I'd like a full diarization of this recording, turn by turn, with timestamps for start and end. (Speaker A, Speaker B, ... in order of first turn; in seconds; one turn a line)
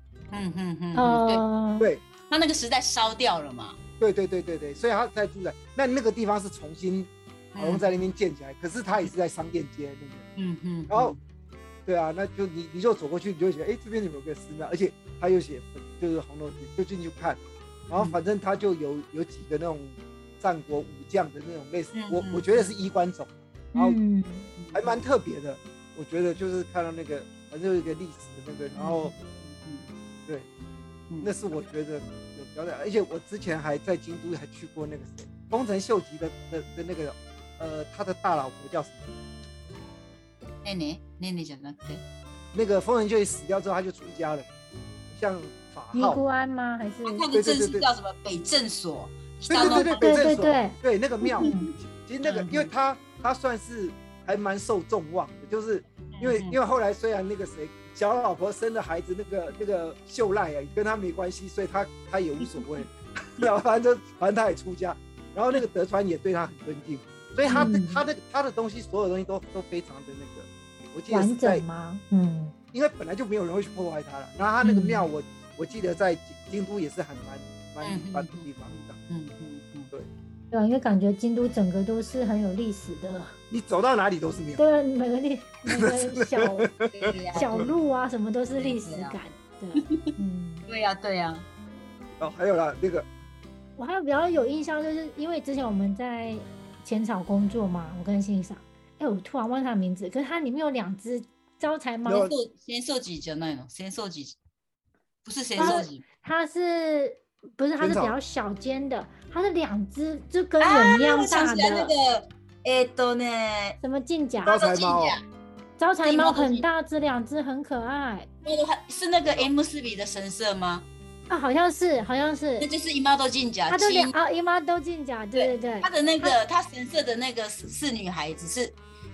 Speaker A: 0.3-1.4
Speaker B: 0.9-1.9
Speaker A: 2.3-3.8
Speaker C: 4.0-10.3
Speaker A: 7.5-7.8
Speaker A: 10.3-11.2
Speaker C: 10.9-11.2
Speaker C: 11.9-24.0
Speaker A: 21.9-22.7
Speaker B: 23.7-24.5
Speaker A: 24.6-25.0
Speaker C: 24.7-29.1
Speaker A: 28.8-29.9
Speaker C: 31.2-39.0
Speaker A: 40.6-42.0
Speaker C: 42.5-44.5
Speaker C: 45.1-46.2
Speaker B: 45.9-47.3
Speaker A: 47.0-50.1
Speaker C: 47.3-47.9
Speaker C: 49.5-71.6
Speaker B: 49.5-51.7
Speaker A: 51.4-52.7
Speaker A: 56.1-56.6
Speaker B: 67.5-68.0
Speaker B: 71.1-72.5
Speaker C: 72.7-79.0
Speaker A: 74.6-75.0
Speaker A: 77.8-79.9
Speaker B: 80.5-83.3
Speaker C: 83.5-84.6
Speaker B: 84.6-86.7
Speaker C: 85.7-87.7
Speaker A: 86.9-87.7
Speaker B: 87.3-90.6
Speaker A: 88.5-89.2
Speaker A: 90.7-91.5
Speaker C: 92.2-93.0
Speaker B: 93.8-102.3
Speaker C: 102.0-102.3
Speaker A: 102.1-104.4
Speaker A: 105.2-106.0
Speaker B: 105.5-111.9
Speaker C: 107.8-108.2
Speaker A: 110.6-113.8
Speaker B: 113.8-114.6
Speaker C: 114.4-115.2
Speaker A: 114.5-115.2
Speaker B: 115.8-118.3
Speaker A: 116.0-116.7
Speaker A: 118.4-120.8
Speaker C: 119.2-119.5
Speaker B: 121.3-122.7
Speaker A: 122.6-124.1
Speaker B: 123.7-126.4
Speaker A: 125.3-128.8